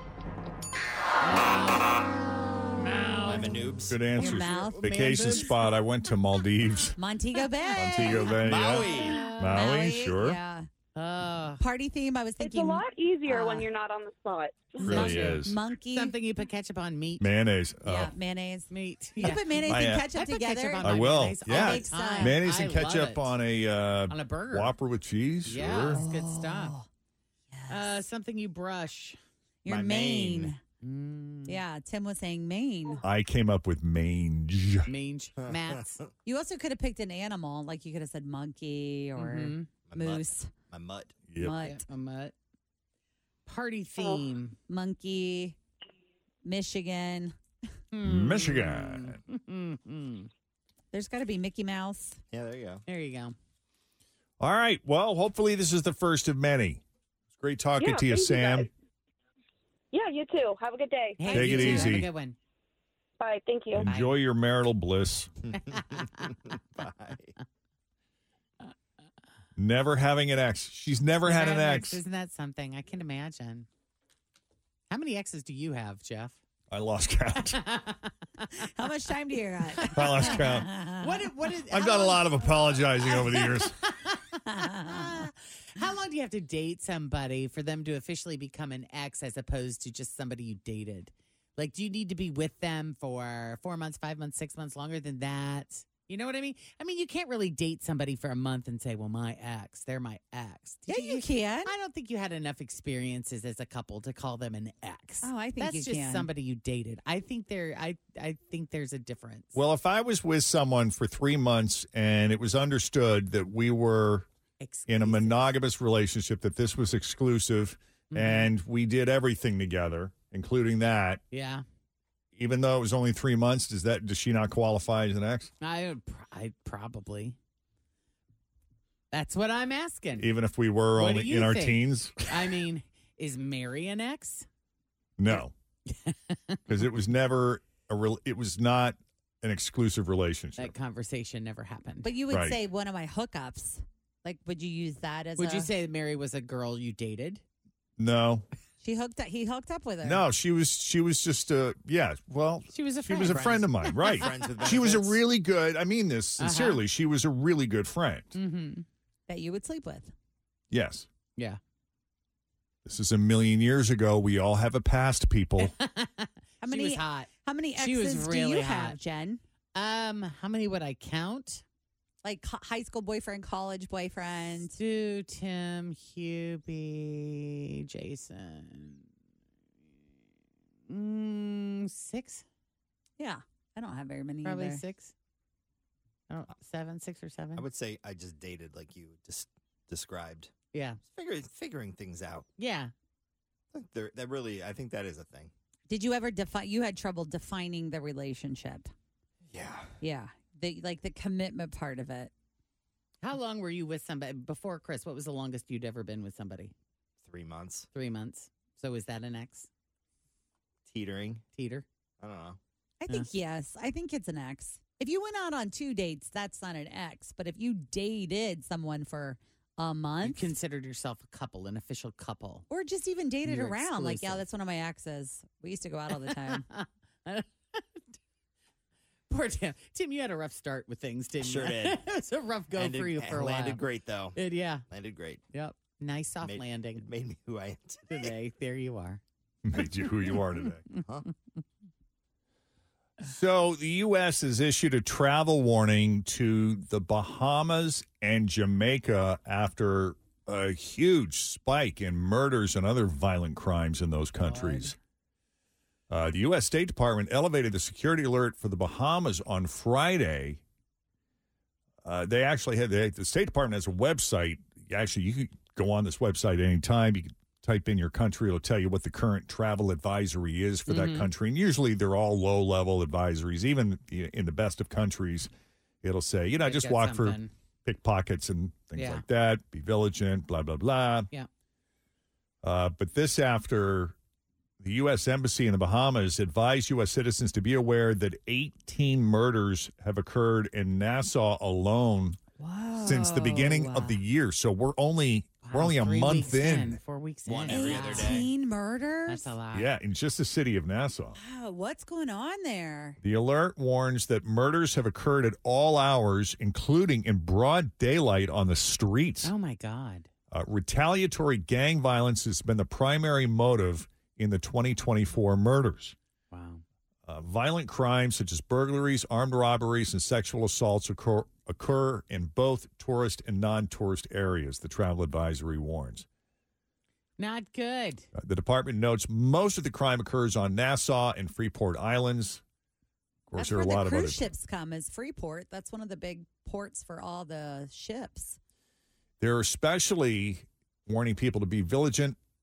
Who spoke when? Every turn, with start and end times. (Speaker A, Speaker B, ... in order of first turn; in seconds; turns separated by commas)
Speaker A: 1.2-2.1, Speaker A: 2.8-5.6, Speaker B: 3.2-4.1, Speaker C: 3.9-7.0, Speaker D: 4.2-4.7, Speaker D: 7.0-8.4, Speaker C: 7.7-10.4, Speaker B: 8.4-9.2, Speaker A: 8.7-9.7, Speaker D: 9.5-10.7, Speaker A: 10.9-11.6, Speaker D: 11.6-12.8, Speaker E: 12.4-14.8, Speaker D: 14.8-16.1, Speaker A: 14.8-17.2, Speaker C: 14.9-15.6, Speaker C: 17.2-18.1, Speaker D: 17.9-22.4, Speaker A: 18.7-23.3, Speaker C: 19.7-20.1, Speaker C: 20.8-26.0, Speaker A: 24.1-24.7, Speaker A: 25.4-26.8, Speaker D: 25.9-26.9, Speaker D: 27.5-27.9, Speaker A: 27.7-29.2, Speaker D: 29.6-30.6, Speaker B: 29.7-30.5, Speaker A: 30.8-31.6, Speaker D: 31.5-33.0, Speaker C: 33.0-34.9, Speaker A: 34.9-36.0, Speaker B: 35.4-36.1, Speaker D: 36.2-40.5, Speaker A: 39.2-39.7, Speaker B: 39.7-41.2, Speaker C: 41.3-41.6, Speaker D: 41.4-41.9, Speaker A: 41.5-42.3, Speaker A: 43.5-44.5, Speaker D: 44.7-45.5, Speaker D: 46.5-47.4, Speaker A: 47.9-50.3, Speaker C: 48.0-49.2, Speaker D: 50.9-52.2, Speaker B: 52.3-52.8, Speaker A: 52.9-53.4, Speaker C: 54.4-56.8, Speaker C: 57.3-58.7, Speaker E: 57.8-58.7, Speaker E: 59.9-61.4, Speaker A: 61.2-62.4, Speaker C: 61.3-62.1, Speaker E: 63.2-63.9, Speaker C: 63.7-65.3, Speaker A: 63.9-64.2, Speaker B: 65.5-67.3, Speaker A: 65.7-66.3, Speaker C: 69.6-72.0, Speaker A: 71.2-73.7, Speaker A: 74.9-76.4, Speaker C: 76.7-77.6, Speaker A: 77.5-78.5, Speaker D: 78.6-81.3, Speaker A: 79.8-109.6, Speaker C: 79.9-80.7, Speaker C: 81.7-83.8, Speaker D: 84.5-85.3, Speaker D: 100.9-101.7, Speaker D: 105.2-106.3, Speaker C: 109.5-114.3, Speaker A: 114.6-115.4, Speaker C: 114.9-121.2, Speaker A: 118.1-118.5, Speaker A: 121.3-121.7, Speaker C: 122.3-125.5, Speaker A: 125.6-127.4, Speaker A: 129.1-130.3, Speaker C: 130.2-132.4, Speaker A: 131.0-134.5, Speaker C: 135.2-135.5, Speaker A: 135.3-136.6, Speaker C: 136.7-140.8, Speaker A: 140.6-142.1, Speaker D: 142.0-145.7, Speaker C: 142.3-142.6, Speaker A: 145.4-147.4, Speaker C: 148.0-148.5, Speaker D: 148.8-150.2, Speaker C: 150.1-158.4, Speaker A: 152.7-154.2, Speaker B: 154.1-155.2, Speaker A: 156.4-156.8, Speaker A: 158.3-158.9, Speaker D: 159.3-160.1, Speaker C: 160.7-161.1, Speaker C: 162.8-165.7, Speaker A: 165.6-169.0, Speaker D: 166.6-169.4, Speaker A: 169.8-171.6, Speaker D: 172.2-174.8, Speaker A: 174.7-179.1, Speaker A: 180.9-182.4, Speaker D: 183.2-184.8, Speaker A: 184.4-185.1, Speaker A: 186.3-187.7, Speaker B: 187.6-190.5, Speaker A: 190.7-191.0, Speaker B: 191.1-192.5, Speaker A: 192.6-192.9, Speaker B: 193.7-195.5, Speaker D: 195.9-198.9, Speaker B: 199.5-199.9, Speaker D: 200.0-202.3, Speaker A: 203.2-206.7, Speaker B: 207.2-207.9, Speaker A: 207.9-209.7, Speaker B: 210.9-211.4, Speaker A: 211.5-211.8, Speaker B: 212.2-212.6, Speaker D: 213.0-220.5, Speaker A: 220.2-222.7, Speaker D: 222.7-226.7, Speaker A: 223.4-224.4, Speaker A: 226.1-228.0, Speaker A: 229.3-233.8, Speaker B: 231.4-232.0, Speaker B: 232.8-235.4, Speaker A: 234.3-234.8, Speaker A: 235.5-237.1, Speaker B: 236.4-238.3, Speaker A: 238.1-239.2, Speaker C: 239.6-240.9, Speaker B: 241.0-241.3, Speaker C: 243.2-255.0, Speaker A: 254.4-254.9, Speaker C: 256.1-260.6, Speaker C: 262.0-275.5, Speaker A: 270.9-271.3, Speaker C: 276.0-281.3, Speaker A: 276.6-277.5, Speaker A: 278.9-279.2, Speaker C: 282.6-284.2, Speaker C: 284.8-292.4, Speaker D: 292.6-294.2, Speaker C: 293.0-297.0, Speaker A: 295.6-298.5, Speaker B: 297.4-298.5, Speaker D: 297.7-299.5, Speaker A: 299.3-299.9, Speaker C: 299.7-301.4, Speaker D: 301.4-303.2, Speaker C: 303.2-309.5, Speaker A: 309.4-310.3, Speaker C: 310.5-316.2, Speaker A: 316.5-316.8, Speaker C: 317.3-326.3, Speaker A: 327.4-328.3, Speaker C: 328.3-332.6, Speaker C: 333.5-334.5, Speaker D: 333.6-338.6, Speaker C: 339.4-342.4